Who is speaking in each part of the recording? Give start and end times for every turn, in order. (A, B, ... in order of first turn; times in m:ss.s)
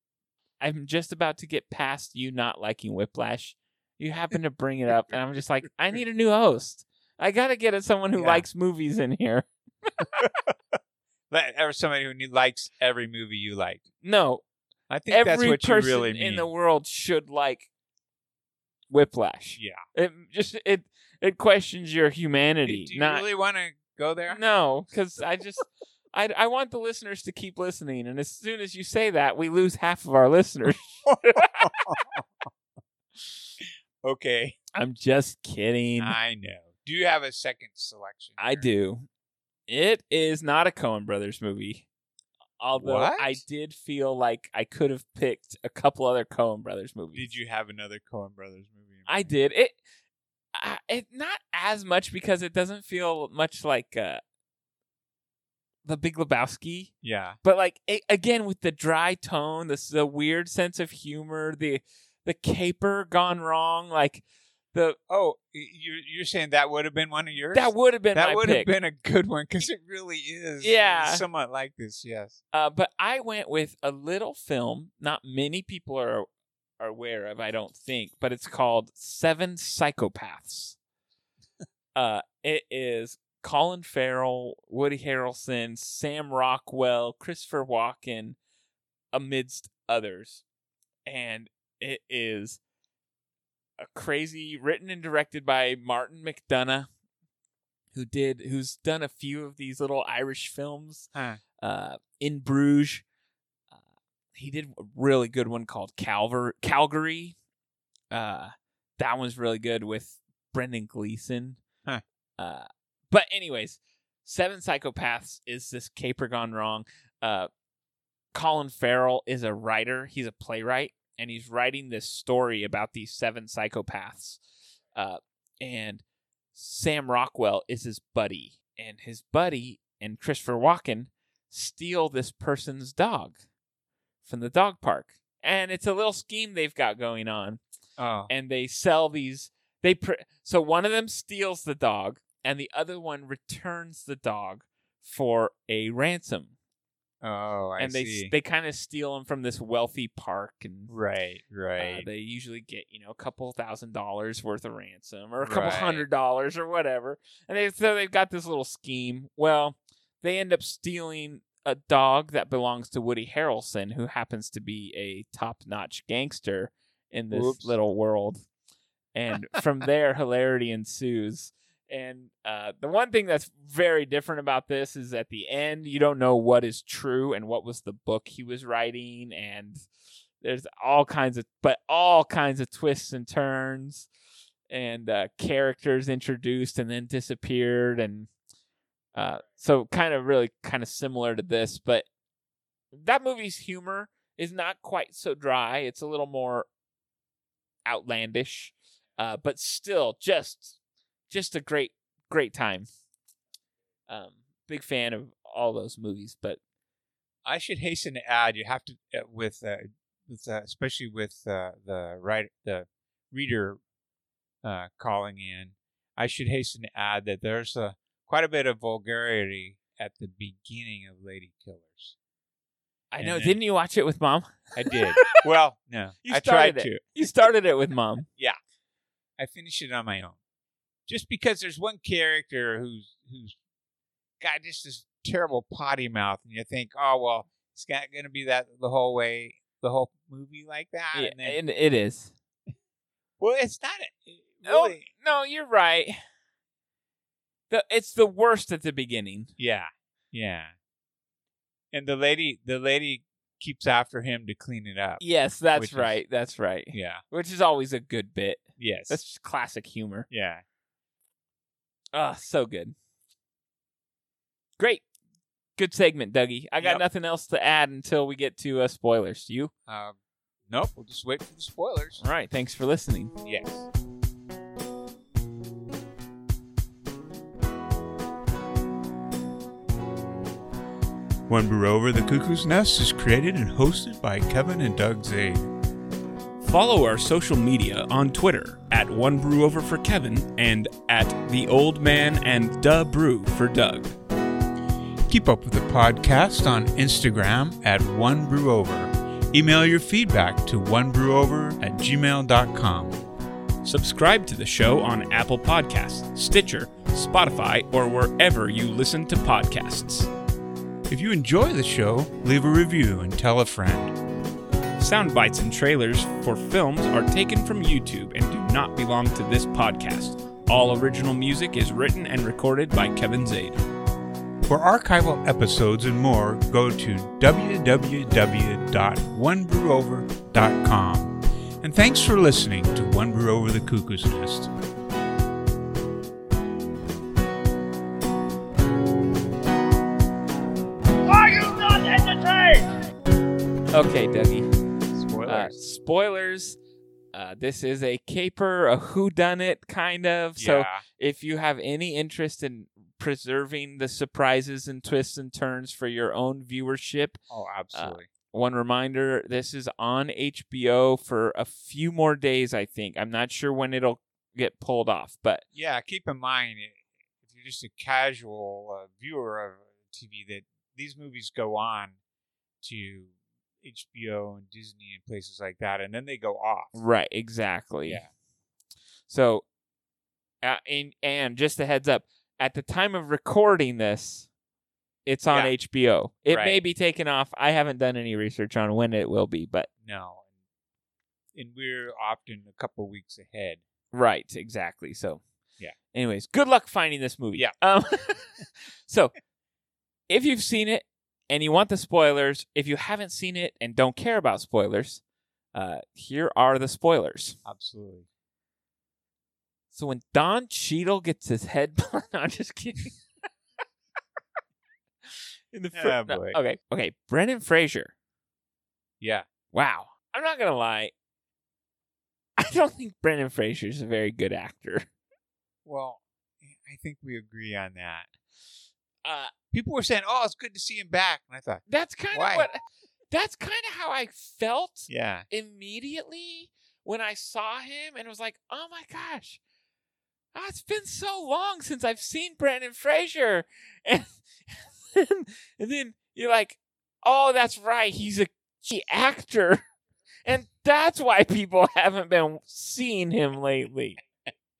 0:00.6-0:10.0 A
0:08.1-0:08.5 B
0:10.2-0:10.5 B
0:11.3-0:13.8 B
0:14.0-0:14.4 A
0:14.9-0:16.5 B
0:15.1-0:17.7 A
0:18.9-0:23.2 A
0:19.6-0:19.8 B
0:22.6-0:24.4 B
0:24.3-0:31.7 A
0:31.0-0:32.2 B
0:33.6-0:34.6 B
0:34.7-0:36.2 A
0:36.0-0:38.7 B
0:38.4-0:39.1 A
0:39.7-0:41.8 A
0:42.6-0:47.3 A
0:42.7-0:43.4 B
0:47.1-0:49.3 B
0:49.1-0:49.8 A
0:50.5-0:54.2 A
0:55.8-1:05.0 A
0:57.0-0:57.4 B
1:05.1-1:12.4 B
1:07.5-1:08.7 A
1:10.6-1:11.2 A
1:12.5-1:16.3 A
1:16.8-1:20.8 A
1:21.9-1:28.4 A
1:29.1-1:30.4 A
1:31.0-1:32.6 A
1:33.8-1:36.9 A
1:37.9-1:41.1 A
1:41.1-1:41.4 B
1:41.6-1:43.0 A
1:44.3-1:47.4 A
1:48.1-1:51.6 A
1:52.4-1:57.5 A
1:58.3-2:04.4 A
2:04.9-2:06.0 A
2:06.5-2:13.4 A
2:14.2-2:17.6 A
2:18.0-2:18.3 B
2:18.3-2:26.5 A
2:27.2-2:28.3 B
2:27.8-2:30.9 A
2:30.9-2:32.0 B
2:31.8-2:48.4 A
2:35.4-2:36.0 B
2:47.3-2:47.8 B
2:49.1-2:59.8 A
3:00.4-3:04.1 A
3:04.7-3:08.3 A
3:09.1-3:12.1 A
3:12.9-3:16.7 A
3:17.8-3:20.8 A
3:21.3-3:22.9 A
3:24.1-3:26.6 A
3:27.4-3:33.8 B
3:34.6-3:42.1 B
3:43.1-3:45.4 A
3:43.2-3:43.6 B
3:44.7-3:47.3 B
3:46.2-3:48.3 A
3:49.4-3:50.4 B
3:51.1-3:53.6 B
3:54.4-4:01.6 B
4:01.1-4:02.3 A
4:03.4-4:05.1 B
4:04.6-4:06.2 A
4:07.7-4:09.5 A
4:09.6-4:10.7 B
4:11.9-4:16.2 B
4:15.2-4:20.3 A
4:16.9-4:17.2 B
4:18.8-4:19.2 B
4:20.3-4:20.6 B
4:22.1-4:22.9 A
4:24.8-4:25.0 A
4:25.8-4:29.7 A
4:26.8-4:27.0 B
4:29.9-4:30.2 B
4:30.7-4:32.2 B
4:32.2-4:33.3 A
4:33.4-4:33.9 B
4:41.5-4:45.7 B
4:46.6-4:54.1 C
4:55.3-5:03.2 B
5:03.8-5:10.3 C
5:11.1-5:14.2 B
5:15.0-5:23.8 C
5:24.6-5:34.7 B
5:43.9-5:44.7 A
5:45.1-5:45.8 B
5:45.4-5:46.8 A
5:47.3-5:57.4 A
5:50.6-5:51.0 B
5:57.5-5:58.3 B
5:57.9-6:05.6 A
6:05.7-6:12.2 B
6:12.8-6:16.9 B
6:16.9-6:18.2 A
6:19.3-6:19.6 A
6:20.6-6:24.5 A
6:25.2-6:29.9 A
6:26.5-6:26.8 B
6:30.0-6:30.5 B
6:31.5-6:33.8 B
6:34.1-6:35.4 A
6:36.1-6:39.3 A
6:40.3-6:45.2 A
6:45.7-6:47.6 A
6:47.6-6:48.3 B
6:49.9-6:53.2 A
6:55.7-6:58.1 A
6:55.9-6:56.6 B
6:59.2-6:59.4 B
6:59.7-7:01.1 A
7:02.6-7:05.1 A
7:05.8-7:08.3 B
7:09.2-7:09.5 A
7:09.7-7:12.7 B
7:11.9-7:19.6 A
7:15.1-7:15.5 B
7:20.5-7:29.8 A
7:30.4-7:34.2 A